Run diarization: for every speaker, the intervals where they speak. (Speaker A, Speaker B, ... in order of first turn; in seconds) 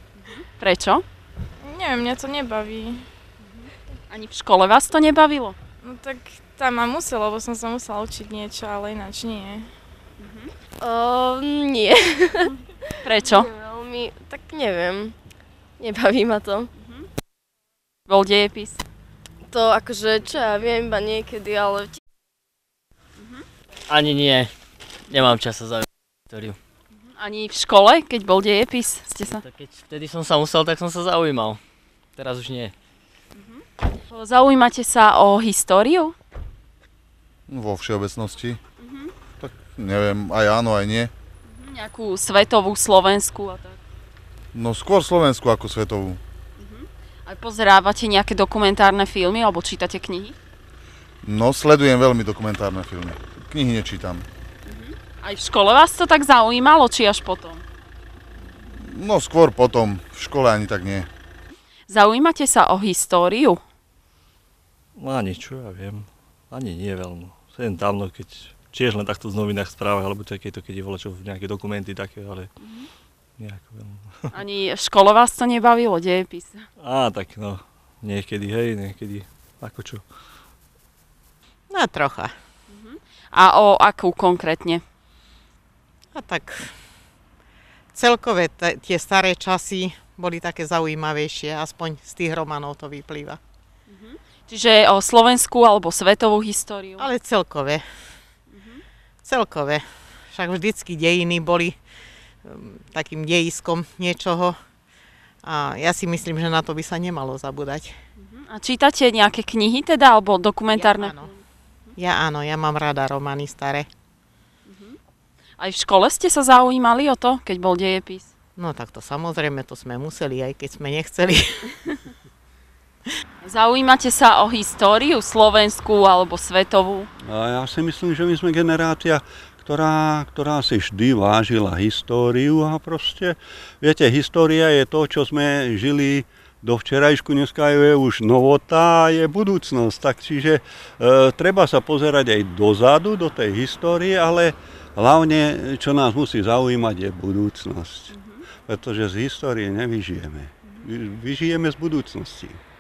Speaker A: 0.2-1.0, 3.5-5.6, 10.2-10.5, 13.0-13.5, 18.1-18.8, 27.1-29.4, 33.4-36.1, 38.8-39.1, 41.5-43.8, 46.6-50.4, 54.7-57.6, 61.9-63.6, 74.3-76.6, 82.7-84.8, 93.9-97.1, 98.5-98.8, 108.2-111.4, 114.7-115.0, 115.6-118.3, 123.4-127.1, 148.1-148.4
Speaker B: 1.7-3.1, 5.8-9.7
Speaker C: 10.8-12.5, 13.2-15.2, 15.8-16.7, 19.5-22.0
Speaker D: 23.9-24.5, 25.1-26.6, 29.4-31.6, 32.2-32.7
Speaker E: 37.5-38.6, 39.4-41.1, 44.5-46.2, 51.2-54.3, 58.7-61.1
Speaker F: 65.0-72.5, 73.4-74.2, 76.8-80.1
Speaker G: 81.7-82.3, 86.2-86.7, 87.9-93.4, 97.0-97.8, 99.2-101.8, 102.5-104.6, 105.4-108.0, 110.7-111.3, 112.0-113.9, 118.6-121.7
Speaker H: 127.3-148.2, 148.7-152.6